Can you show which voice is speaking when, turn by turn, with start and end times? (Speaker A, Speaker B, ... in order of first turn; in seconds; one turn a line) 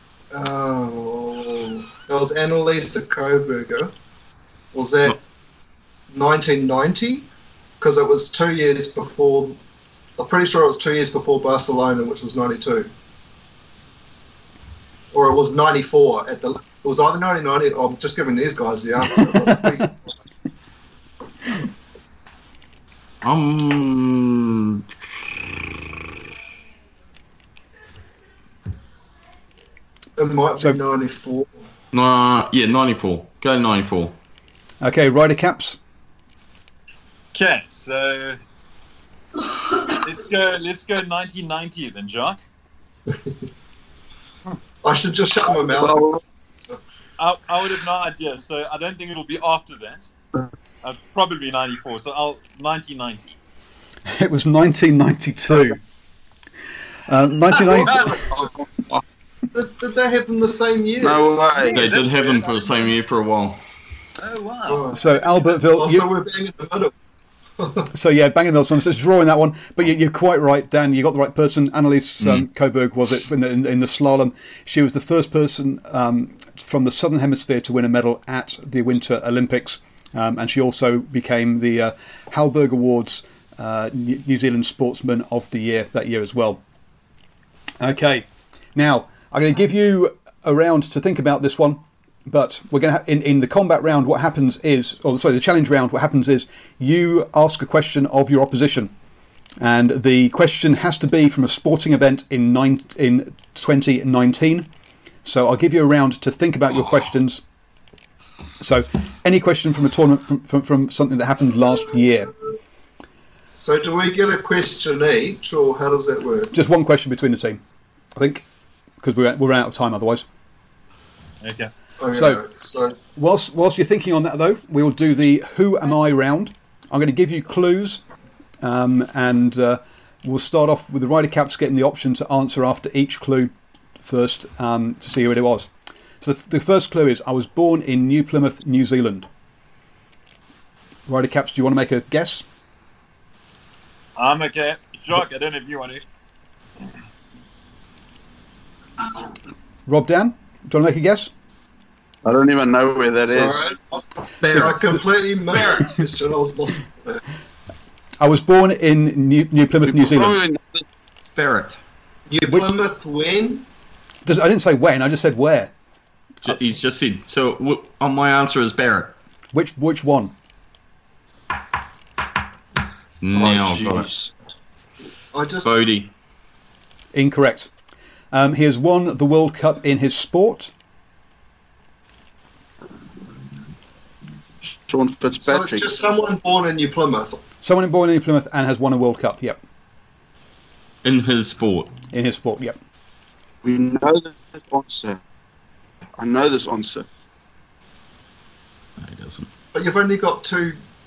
Speaker A: 0.3-3.9
Speaker A: 4.7-5.2
Speaker A: 6.1-7.3
Speaker A: 7.8-9.6
Speaker A: 10.2-12.9
Speaker A: 15.1-20.0
Speaker B: 23.2-24.9
Speaker A: 30.2-31.5
Speaker B: 31.9-34.1
Speaker C: 34.8-35.8
Speaker D: 37.3-38.4
Speaker D: 39.9-42.4
Speaker A: 44.8-46.1
Speaker E: 45.7-46.2
Speaker D: 47.2-50.1
Speaker D: 50.8-53.3
Speaker C: 54.1-55.8
Speaker C: 57.1-58.1
Speaker A: 57.6-58.5
Speaker D: 57.7-58.1
Speaker E: 58.3-59.0
Speaker A: 59.5-61.3
Speaker E: 61.0-61.8
Speaker D: 61.5-62.8
Speaker B: 61.7-63.6
Speaker D: 64.2-65.0
Speaker A: 64.7-66.9
Speaker C: 64.9-66.1
Speaker A: 67.6-67.9
Speaker C: 67.9-86.6
Speaker C: 87.8-98.9
Speaker C: 99.6-104.7
Speaker C: 105.2-107.4
Speaker C: 108.6-112.3
Speaker A: 113.6-116.5
Speaker C: 116.5-117.6
Speaker C: 118.2-118.5
Speaker C: 119.0-120.3
Speaker D: 121.4-121.7
Speaker A: 122.0-123.0
Speaker C: 122.1-122.4
Speaker C: 123.2-128.0
Speaker C: 128.6-135.7
Speaker C: 136.2-139.3
Speaker C: 141.1-142.4
Speaker D: 144.2-146.0
Speaker C: 149.9-151.3
Speaker E: 152.2-153.6
Speaker A: 153.2-157.2
Speaker B: 154.4-155.0
Speaker C: 158.2-160.4
Speaker E: 159.8-160.9
Speaker B: 161.2-161.8
Speaker A: 162.3-163.7
Speaker C: 164.3-165.7
Speaker B: 166.4-169.2
Speaker C: 169.5-170.3
Speaker B: 173.2-174.1
Speaker E: 173.4-174.3
Speaker A: 175.3-175.8
Speaker B: 175.6-176.1
Speaker C: 177.1-177.7
Speaker C: 178.3-180.7
Speaker E: 184.9-185.9
Speaker A: 185.4-187.4
Speaker C: 187.6-189.6
Speaker B: 191.0-191.9
Speaker C: 192.1-192.8
Speaker E: 193.6-195.2
Speaker E: 196.2-197.1
Speaker B: 199.0-199.5
Speaker A: 199.7-200.8